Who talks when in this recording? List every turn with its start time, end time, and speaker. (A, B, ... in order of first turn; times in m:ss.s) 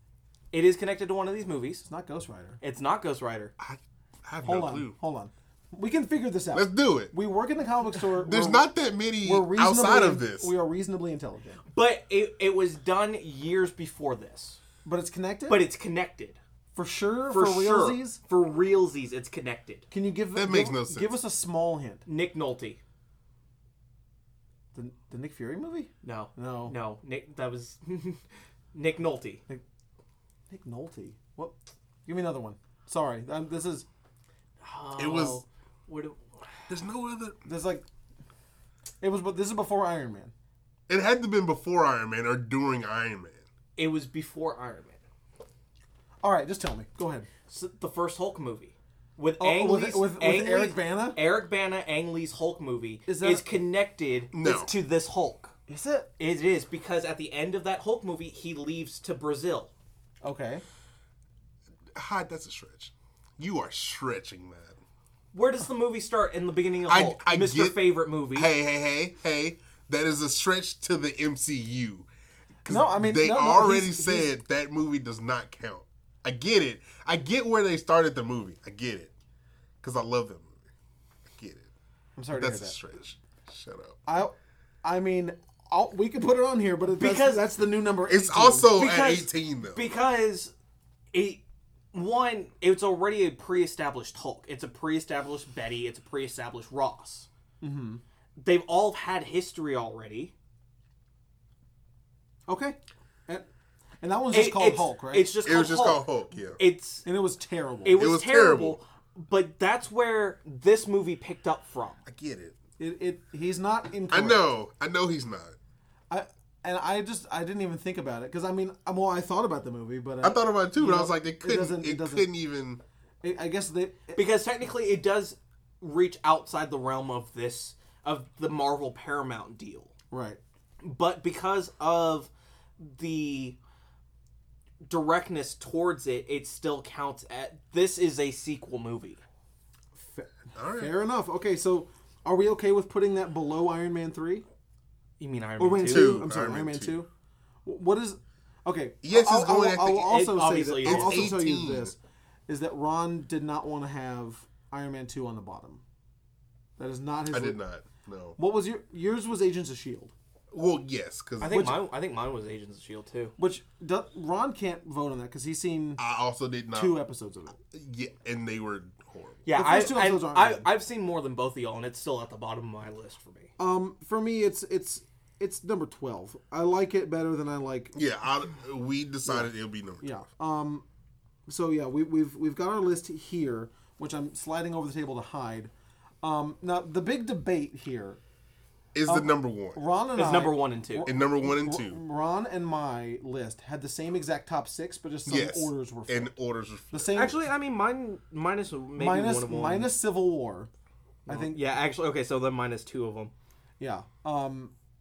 0:00.5-0:01.8 A
0:01.8-0:02.6 B
0:02.6-0:03.5 A
0:03.6-0:05.0 C
0:04.4-0:08.7 B
0:06.5-0:07.1 C
0:08.2-0:10.5 C
0:09.2-0:11.6 B
0:11.7-0:14.6 A
0:14.8-0:15.7 B
0:15.5-0:16.4 A
0:16.8-0:18.2 B
0:17.3-0:19.8 A
0:19.9-0:22.0 B
0:20.4-0:21.2 C
0:22.1-0:22.8 A
0:24.7-0:26.8 B
0:26.0-0:28.2 A
0:28.7-0:29.4 A
0:30.5-0:31.5 B
0:32.1-0:33.9 B
0:34.6-0:36.5 A
0:35.0-0:35.4 C
0:36.7-0:37.4 C
0:37.4-0:37.8 B
0:39.0-0:40.3 B
0:40.9-0:43.4 C
0:43.8-0:45.0 A
0:46.2-0:47.3 B
0:47.5-0:55.5 A
0:49.4-0:51.2 B
0:53.1-0:53.6 B
0:54.3-0:54.7 C
0:55.7-0:56.1 B
0:56.2-0:59.7 A
1:00.2-1:00.6 B
1:01.9-1:04.8 C
1:05.3-1:08.5 A
1:06.8-1:12.1 C
1:12.6-1:14.3 B
1:12.6-1:19.1 C
1:19.8-1:20.6 C
1:21.3-1:21.7 C
1:22.2-1:22.8 B
1:22.3-1:24.0 C
1:24.1-1:28.7 B
1:27.0-1:27.4 A
1:28.1-1:29.9 C
1:28.8-1:30.5 A
1:31.1-1:37.3 A
1:37.6-1:38.0 B
1:38.4-1:40.3 A
1:42.5-1:43.5 B
1:44.0-1:45.3 B
1:44.3-1:47.1 A
1:45.4-1:46.6 C
1:47.0-1:48.0 B
1:47.8-1:52.0 A
1:47.9-1:48.8 C
1:52.1-1:52.6 C
1:52.8-1:54.5 B
1:54.1-1:55.6 C
1:56.1-2:02.3 B
2:00.2-2:02.8 C
2:03.2-2:04.3 B
2:04.2-2:09.9 A
2:10.1-2:10.4 B
2:10.8-2:13.6 A
2:14.8-2:19.2 A
2:20.0-2:24.4 B
2:20.6-2:20.9 C
2:25.2-2:26.2 A
2:25.6-2:27.1 B
2:25.9-2:27.0 C
2:27.6-2:32.0 B
2:29.0-2:30.2 C
2:29.9-2:31.4 A
2:30.8-2:31.9 C
2:32.5-2:35.8 B
2:36.8-2:37.6 B
2:37.3-2:38.4 C
2:38.4-2:40.1 B
2:40.5-2:41.7 C
2:41.4-2:43.4 A
2:41.5-2:41.8 B
2:43.4-2:46.0 B
2:46.0-2:47.0 C
2:46.7-2:47.6 B
2:47.7-2:49.4 C
2:49.4-2:53.5 A
2:49.5-2:50.7 B
2:53.6-2:58.0 B
2:57.9-3:00.1 C
2:59.2-2:59.5 B
3:00.0-3:00.8 B
3:01.5-3:05.7 B
3:06.2-3:08.2 B
3:09.0-3:09.8 C
3:09.1-3:16.3 B
3:10.2-3:11.1 A
3:11.0-3:12.0 C
3:15.3-3:17.2 C
3:16.9-3:17.4 B
3:17.1-3:19.9 A
3:19.0-3:20.7 B
3:21.3-3:21.6 B
3:21.3-3:23.3 A
3:23.8-3:24.7 B